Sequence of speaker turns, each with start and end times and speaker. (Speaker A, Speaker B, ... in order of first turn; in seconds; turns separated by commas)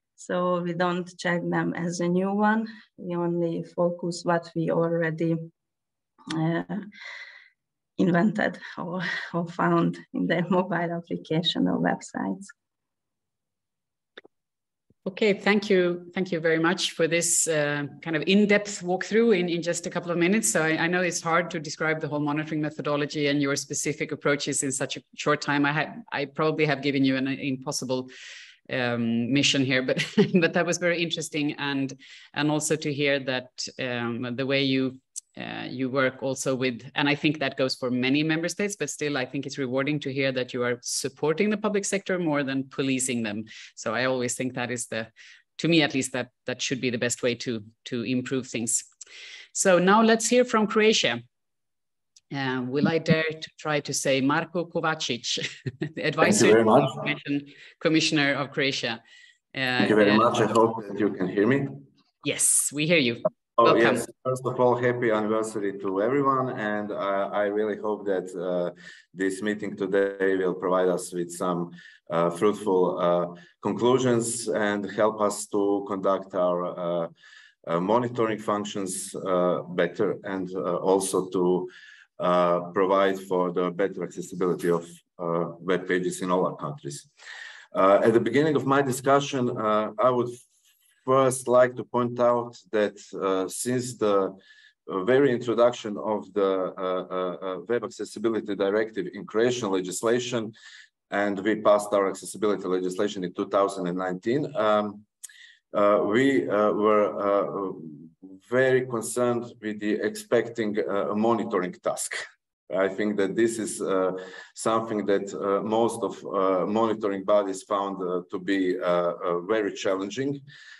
Speaker A: 0.2-5.5, Speaker A: 6.3-6.8, Speaker A: 8.0-12.5, Speaker B: 15.1-28.1, Speaker B: 28.7-48.9, Speaker B: 49.5-51.2, Speaker B: 52.3-59.0, Speaker C: 56.2-57.1, Speaker B: 59.5-60.3, Speaker C: 59.8-61.8, Speaker B: 62.2-64.0, Speaker C: 63.6-77.1, Speaker C: 77.7-87.1, Speaker C: 87.7-90.4, Speaker C: 91.0-100.5, Speaker C: 101.1-105.0, Speaker C: 105.7-112.2, Speaker C: 112.7-120.4